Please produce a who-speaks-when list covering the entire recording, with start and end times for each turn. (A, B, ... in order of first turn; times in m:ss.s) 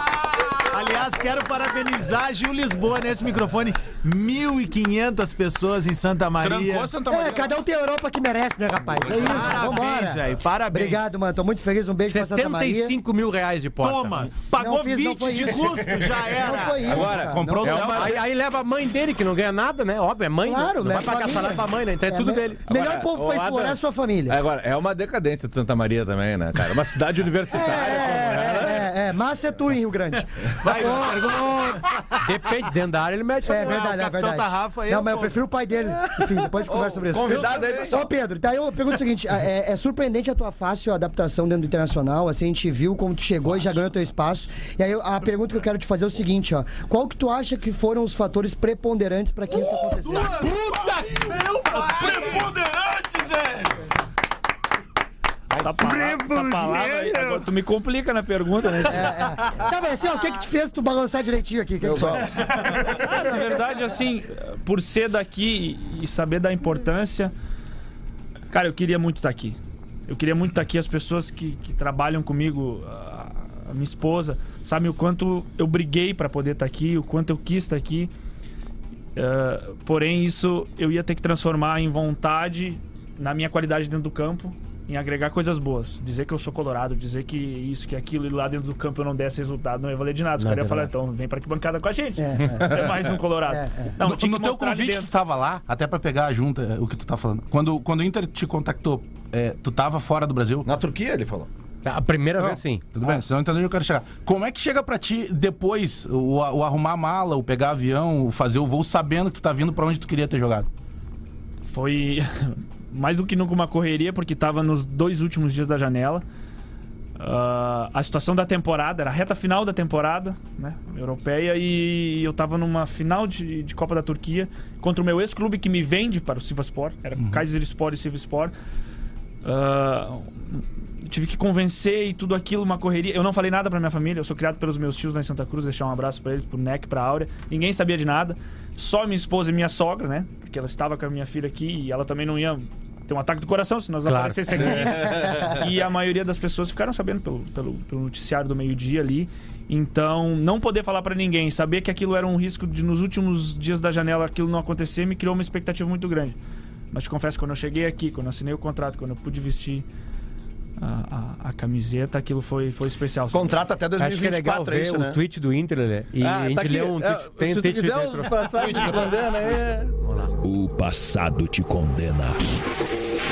0:00.7-0:06.9 A
0:06.4-0:07.5 B
0:07.1-0:13.0 C
0:09.0-0:09.6 B
0:09.1-0:11.1 A
0:12.1-0:14.3 D
0:13.8-0:16.9 A
0:14.5-0:18.0 C
0:16.8-0:18.2 E
0:16.9-0:18.2 B
0:17.8-0:22.6 D
0:20.4-0:24.4 C
0:22.7-0:28.9 E
0:27.5-0:31.8 C
0:30.6-0:31.8 A
0:32.2-0:33.9 D
0:33.4-0:50.6 C
0:33.5-0:35.4 A
0:36.7-0:38.1 F
0:37.2-0:37.9 E
0:50.0-0:53.6 B
0:51.7-0:53.0 E
0:55.5-0:59.3 G
0:55.8-0:57.1 B
0:58.8-1:02.7 C
1:01.8-1:03.0 F
1:02.8-1:07.3 G
1:08.5-1:18.1 G
1:19.2-1:35.1 G
1:30.4-1:30.9 D
1:32.2-1:32.9 C
1:33.5-1:33.9 C
1:34.0-1:40.7 B
1:40.6-1:41.5 F
1:41.8-1:42.8 D
1:42.4-1:50.7 B
1:51.7-1:56.2 G
1:57.2-2:08.5 G
2:07.2-2:07.4 B
2:09.4-2:36.4 G
2:24.1-2:25.1 D
2:36.9-2:39.8 G
2:40.8-2:43.6 G
2:43.3-2:45.2 F
2:44.0-2:49.0 D
2:46.2-2:50.0 E
2:50.4-2:52.4 H